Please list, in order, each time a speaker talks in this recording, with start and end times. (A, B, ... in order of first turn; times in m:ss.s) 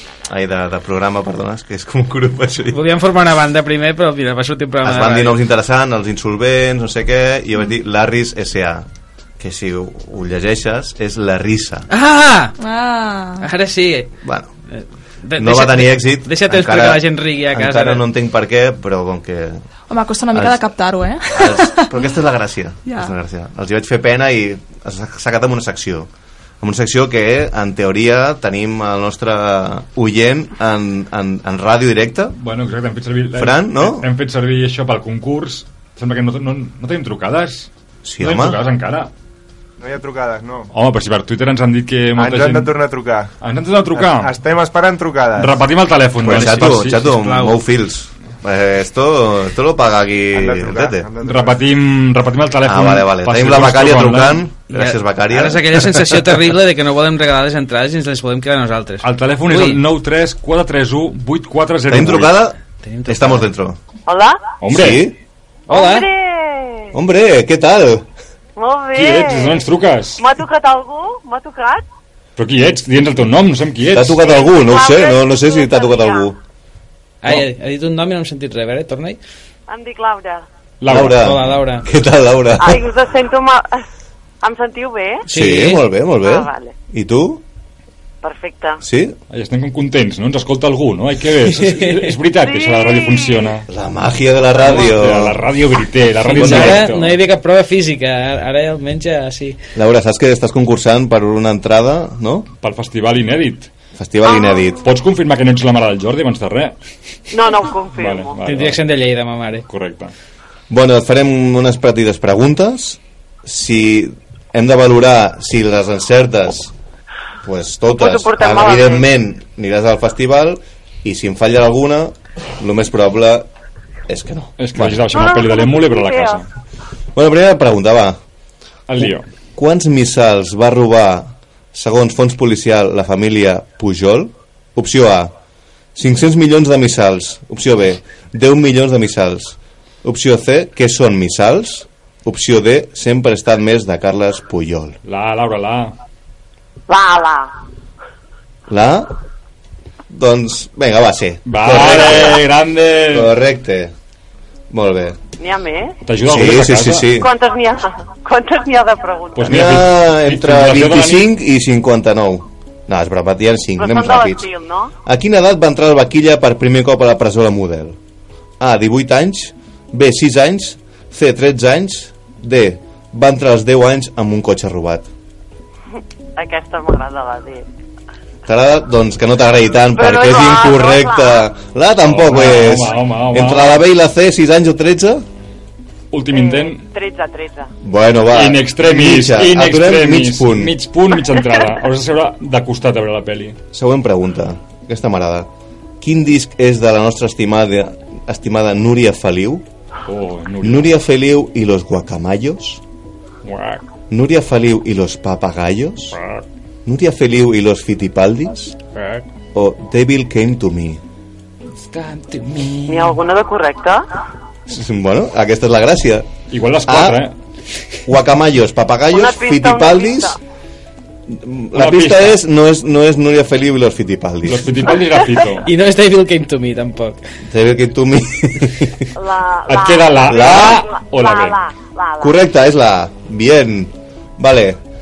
0:00.3-0:02.8 A
0:02.7-0:05.4 B
0:04.8-0:08.9 A
0:09.4-0:11.9 A
0:11.9-0:12.6 B
0:12.6-0:13.5 C
0:13.4-0:14.1 B
0:14.2-0:14.5 A
0:14.7-0:18.0 B
0:15.4-0:19.6 A
0:19.9-0:22.0 C
0:20.3-0:20.6 A
0:21.3-0:26.1 A
0:22.9-0:23.1 C
0:26.6-0:32.3 A
0:32.4-0:37.7 D
0:33.3-0:34.1 A
0:38.0-0:38.6 A
0:38.2-0:39.1 D
0:39.8-0:40.7 E
0:40.7-0:42.8 D
0:42.2-0:43.3 E
0:43.4-0:44.4 D
0:43.9-0:45.7 E
0:45.4-0:47.0 D
0:46.2-0:51.1 A
0:46.2-0:47.6 B
0:50.3-0:51.6 E
0:51.2-0:54.5 D
0:52.6-0:56.3 A
0:54.7-0:59.8 B
0:59.0-1:02.3 D
1:01.9-1:03.8 A
1:02.8-1:03.5 B
1:04.1-1:04.6 F
1:04.6-1:05.1 D
1:04.7-1:05.2 A
1:05.7-1:06.1 B
1:05.7-1:06.9 F
1:06.9-1:08.1 A
1:08.6-1:09.6 F
1:08.9-1:10.2 D
1:10.2-1:11.8 F
1:12.4-1:14.2 D
1:13.9-1:16.4 A
1:14.2-1:16.3 F
1:17.2-1:19.2 B
1:19.7-1:20.5 F
1:20.8-1:21.5 D
1:20.9-1:22.9 A
1:21.0-1:21.9 B
1:22.6-1:23.8 F
1:24.4-1:25.2 F
1:25.3-1:25.9 B
1:25.3-1:27.4 A
1:26.2-1:26.7 F
1:28.2-1:28.8 F
1:28.8-1:29.2 A
1:29.3-1:33.7 D
1:31.5-1:32.2 B
1:32.4-1:33.5 F
1:33.7-1:35.4 A
1:34.6-1:37.2 D
1:36.2-1:39.6 B
1:36.3-1:36.9 A
1:39.8-1:42.5 A
1:42.6-1:43.7 D
1:44.0-1:44.8 A
1:44.3-1:44.7 F
1:44.8-1:46.8 D
1:47.3-1:48.4 F
1:47.9-1:48.8 D
1:48.4-1:49.7 B
1:49.7-1:50.1 D
1:50.7-1:56.7 A
1:57.4-2:03.5 A
1:58.0-1:59.1 F
2:04.1-2:05.0 A
2:04.6-2:06.5 D
2:05.1-2:06.4 F
2:07.2-2:08.2 A
2:08.9-2:09.2 D
2:09.0-2:15.3 A
2:16.0-2:25.0 A
2:25.0-2:25.9 D
2:26.9-2:27.5 F
2:28.7-2:29.1 A
2:30.1-2:32.5 A
2:31.5-2:33.3 D
2:33.1-2:33.9 A
2:34.7-2:35.2 A
2:35.4-2:36.0 F
2:36.1-2:37.1 D
2:36.3-2:37.3 A
2:37.1-2:39.5 F
2:39.4-2:41.3 D
2:39.4-2:44.5 A
2:43.8-2:44.9 F
2:45.0-2:48.0 A
2:48.6-2:55.1 A
2:56.4-2:57.7 F
2:58.5-3:05.2 A
3:00.0-3:01.5 F
3:02.0-3:03.8 D
3:06.1-3:06.8 D
3:06.3-3:07.7 F
3:07.8-3:10.8 A
3:08.3-3:13.6 D
3:13.7-3:15.5 A
3:16.0-3:19.6 A
3:20.1-3:20.9 D
3:20.6-3:22.8 A
3:23.4-3:23.8 D
3:24.1-3:26.2 A
3:26.1-3:26.4 D
3:26.8-3:28.8 A
3:28.9-3:29.3 D
3:29.5-3:31.0 A
3:31.8-3:33.2 D
3:32.9-3:34.0 F
3:34.7-3:36.3 A
3:36.5-3:37.4 D
3:36.9-3:37.2 A
3:38.1-3:40.4 A
3:39.1-3:40.4 F
3:41.3-3:45.0 A
3:41.8-3:42.4 D
3:44.4-3:45.7 D
3:45.6-3:47.2 B
3:47.5-3:49.1 A
3:49.2-3:52.4 F
3:49.7-3:51.6 D
3:50.3-3:50.9 A
3:52.2-3:54.8 A